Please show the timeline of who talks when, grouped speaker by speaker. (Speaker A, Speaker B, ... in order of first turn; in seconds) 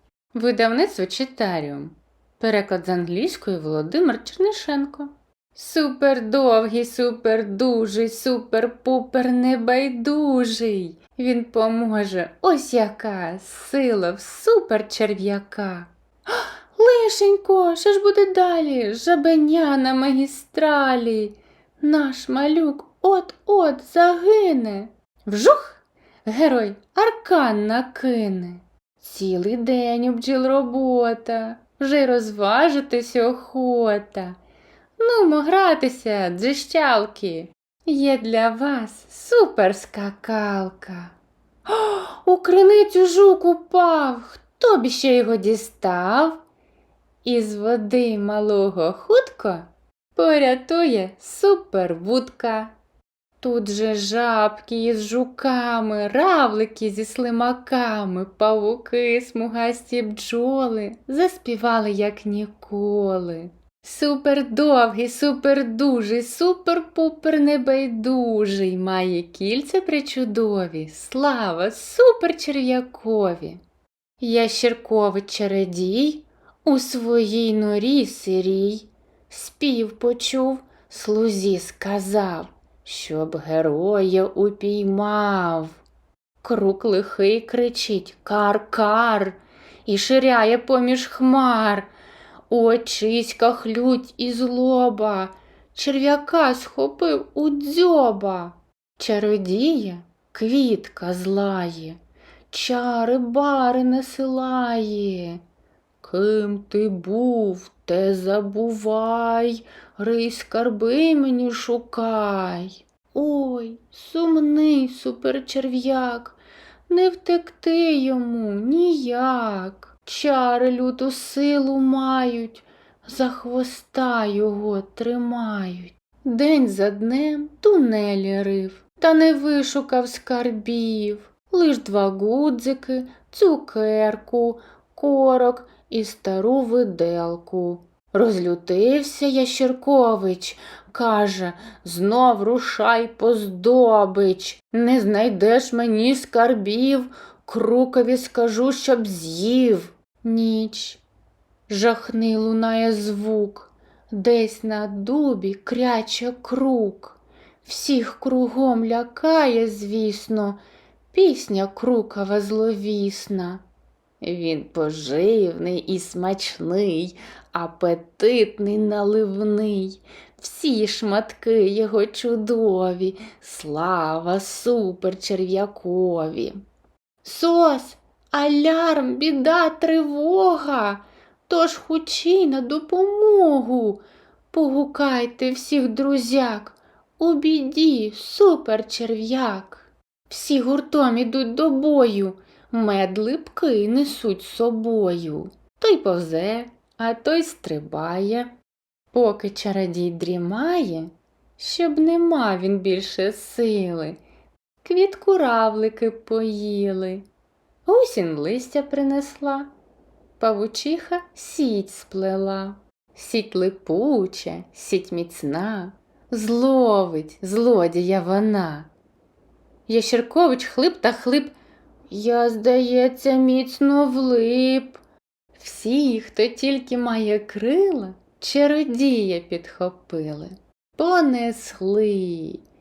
Speaker A: 0.3-34.4, 35.0-41.1, 41.7-46.4, 47.2-52.7, 53.4-73.6, 74.2-85.8, 86.4-91.9, 92.5-102.0, 102.5-105.4, 106.0-116.4, 116.9-151.0, 151.7-160.6, 161.1-163.6, 164.2-176.6, 177.2-184.0, 184.5-198.5, 199.1-204.2, 204.8-207.2, 207.9-209.7, 210.4-218.9, 219.9-221.5, 222.1-225.0, 225.6-232.6